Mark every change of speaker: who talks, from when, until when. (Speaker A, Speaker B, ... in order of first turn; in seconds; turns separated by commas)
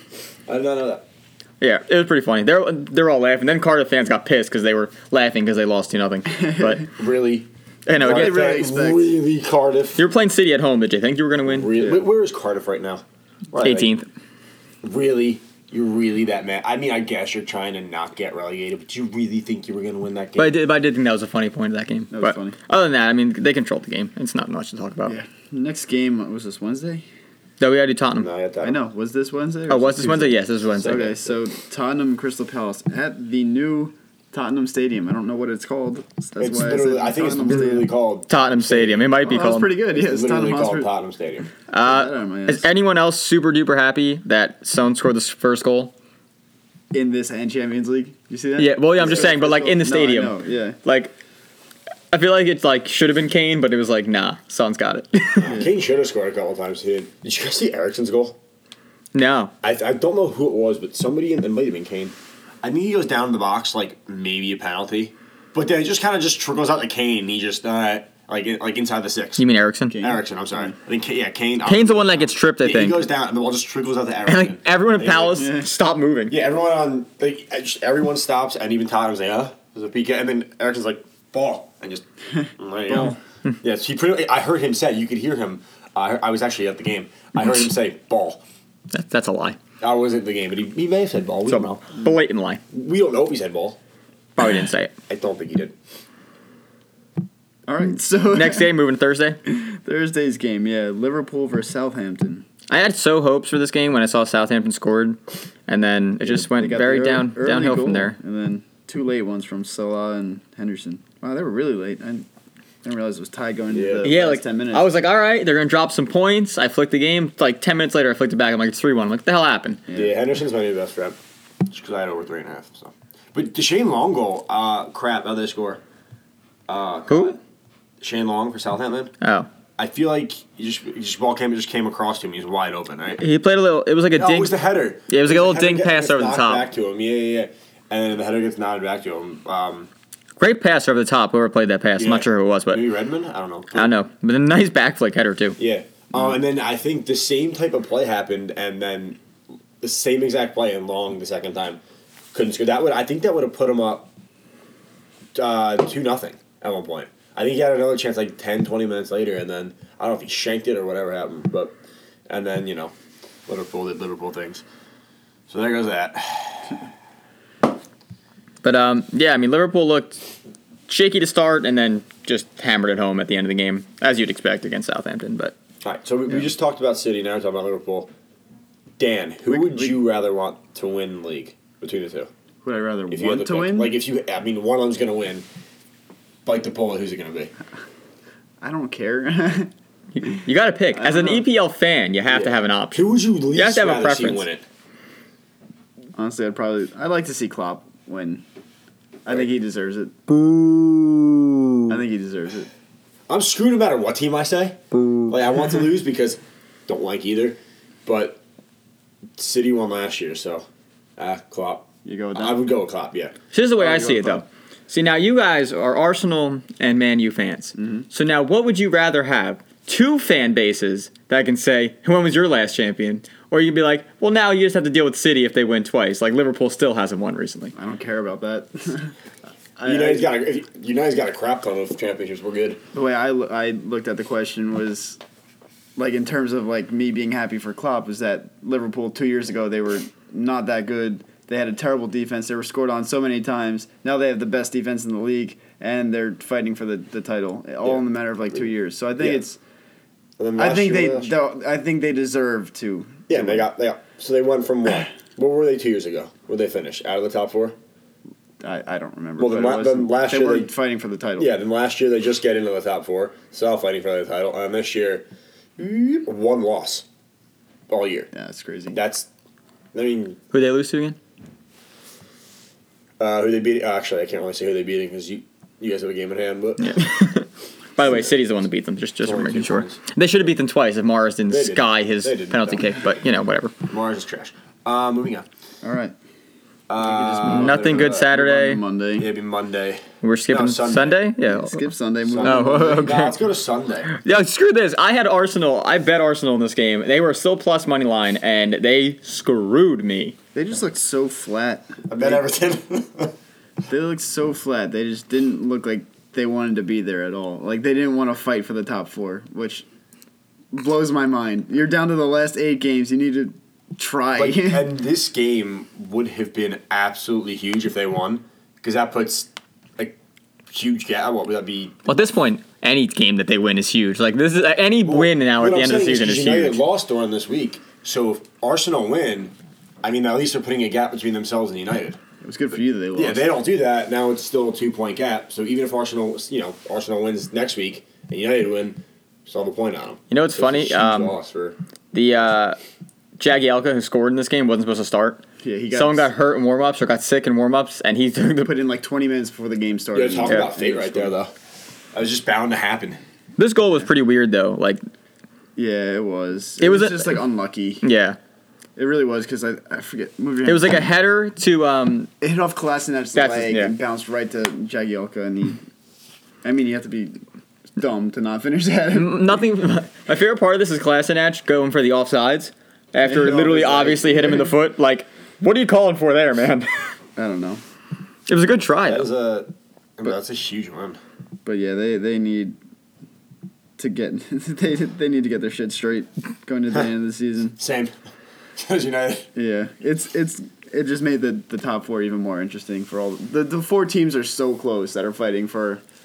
Speaker A: 0.5-1.0, Speaker B: 1.6-6.8, Speaker A: 6.9-10.0, Speaker B: 7.8-8.4, Speaker C: 8.0-9.2, Speaker B: 9.9-11.7, Speaker A: 11.4-13.9, Speaker C: 11.8-12.0, Speaker B: 13.6-14.1, Speaker A: 14.8-20.6, Speaker B: 20.4-25.1, Speaker C: 22.1-22.6, Speaker C: 25.1-27.0, Speaker B: 27.6-28.3, Speaker A: 28.2-28.8, Speaker C: 28.6-37.9, Speaker B: 29.7-31.1, Speaker A: 36.4-39.1, Speaker B: 38.3-39.7, Speaker C: 39.2-40.9, Speaker A: 39.9-41.5, Speaker B: 41.7-45.9, Speaker C: 41.8-42.6, Speaker C: 46.9-50.8, Speaker B: 48.6-51.1, Speaker B: 52.1-55.5, Speaker A: 55.4-58.4, Speaker B: 59.1-59.5, Speaker A: 59.6-69.4, Speaker B: 69.4-70.0, Speaker C: 69.9-70.7, Speaker A: 70.0-75.5, Speaker B: 71.6-73.0, Speaker B: 74.3-76.3, Speaker C: 75.3-75.7, Speaker A: 76.3-82.0, Speaker C: 82.4-83.1, Speaker A: 82.6-88.4, Speaker B: 88.9-89.6, Speaker A: 89.8-91.9, Speaker B: 91.5-92.6, Speaker A: 92.7-93.8, Speaker B: 94.4-94.9, Speaker A: 95.1-95.7, Speaker C: 97.7-98.7, Speaker B: 98.3-99.4, Speaker C: 99.5-102.5, Speaker B: 102.7-108.2, Speaker C: 106.2-112.3, Speaker C: 112.8-114.9, Speaker A: 113.7-114.1, Speaker B: 114.0-119.8, Speaker C: 119.9-120.1, Speaker A: 119.9-121.2, Speaker A: 121.7-125.8, Speaker A: 126.7-127.4, Speaker B: 127.1-127.4, Speaker A: 128.0-129.1, Speaker B: 129.2-129.5, Speaker A: 129.8-133.2, Speaker B: 133.2-134.5, Speaker A: 134.2-139.9, Speaker B: 135.1-136.7, Speaker B: 140.4-142.8, Speaker A: 142.0-143.9, Speaker B: 143.7-145.6, Speaker A: 145.6-149.2, Speaker A: 149.8-151.8, Speaker A: 152.3-154.1, Speaker A: 155.3-161.7, Speaker A: 162.3-162.9, Speaker A: 163.5-164.6, Speaker A: 165.5-166.9, Speaker B: 168.6-170.2, Speaker B: 170.9-175.5, Speaker A: 175.8-178.1, Speaker A: 179.0-182.3, Speaker C: 179.5-180.0, Speaker C: 182.6-183.9, Speaker A: 183.1-185.4, Speaker A: 186.4-187.5, Speaker C: 188.6-189.7, Speaker B: 190.1-194.4, Speaker C: 190.9-191.4, Speaker A: 192.3-194.6, Speaker C: 196.2-198.4, Speaker C: 199.2-200.2, Speaker B: 200.3-201.9, Speaker C: 201.9-202.7, Speaker A: 203.3-208.4, Speaker B: 204.9-205.3, Speaker A: 209.4-210.7, Speaker A: 211.2-213.3, Speaker C: 212.0-212.6, Speaker B: 213.5-227.7, Speaker C: 213.8-214.4, Speaker C: 217.8-218.1, Speaker C: 227.7-229.1, Speaker C: 229.8-230.3, Speaker A: 229.8-232.8, Speaker C: 232.9-235.2, Speaker C: 235.9-249.6, Speaker A: 250.4-251.3, Speaker C: 250.6-253.7, Speaker A: 253.3-257.8, Speaker C: 258.6-261.5, Speaker A: 259.4-260.7, Speaker A: 261.4-265.2, Speaker A: 265.8-267.0, Speaker A: 267.9-268.3, Speaker C: 268.3-269.0, Speaker A: 268.9-269.3, Speaker A: 269.9-270.4, Speaker B: 270.5-271.2, Speaker A: 273.2-277.0, Speaker B: 276.8-283.7, Speaker A: 279.2-280.0, Speaker A: 281.5-282.9, Speaker A: 283.9-285.5, Speaker C: 285.8-286.1, Speaker A: 286.9-288.3, Speaker C: 287.0-289.3, Speaker B: 287.4-288.8, Speaker A: 289.2-291.3, Speaker B: 290.2-291.8, Speaker C: 291.5-293.1, Speaker A: 292.2-294.1, Speaker B: 292.4-293.4, Speaker B: 294.1-300.4, Speaker C: 300.5-302.4, Speaker A: 302.1-303.3, Speaker C: 303.9-309.9, Speaker C: 310.7-314.9, Speaker A: 314.3-320.1, Speaker A: 320.7-322.0, Speaker B: 322.1-326.8, Speaker A: 325.0-332.2, Speaker C: 332.4-333.5, Speaker A: 333.1-341.8, Speaker B: 340.3-341.3, Speaker B: 342.1-342.8, Speaker B: 343.4-348.7, Speaker C: 345.6-346.3, Speaker C: 348.6-351.3, Speaker A: 350.1-351.5, Speaker A: 352.1-353.2, Speaker B: 353.6-355.0, Speaker C: 355.8-358.0, Speaker B: 356.8-357.4, Speaker B: 358.0-358.4, Speaker C: 358.9-361.1, Speaker B: 360.6-362.3, Speaker C: 362.4-365.8, Speaker B: 363.3-363.9, Speaker C: 366.6-367.4, Speaker C: 367.9-369.6, Speaker B: 369.1-377.1, Speaker C: 373.2-374.7, Speaker C: 377.4-377.8, Speaker B: 378.5-379.3, Speaker A: 379.1-381.2, Speaker C: 381.6-382.8, Speaker C: 384.0-387.8, Speaker A: 387.8-388.1, Speaker A: 388.8-389.5, Speaker C: 389.5-396.0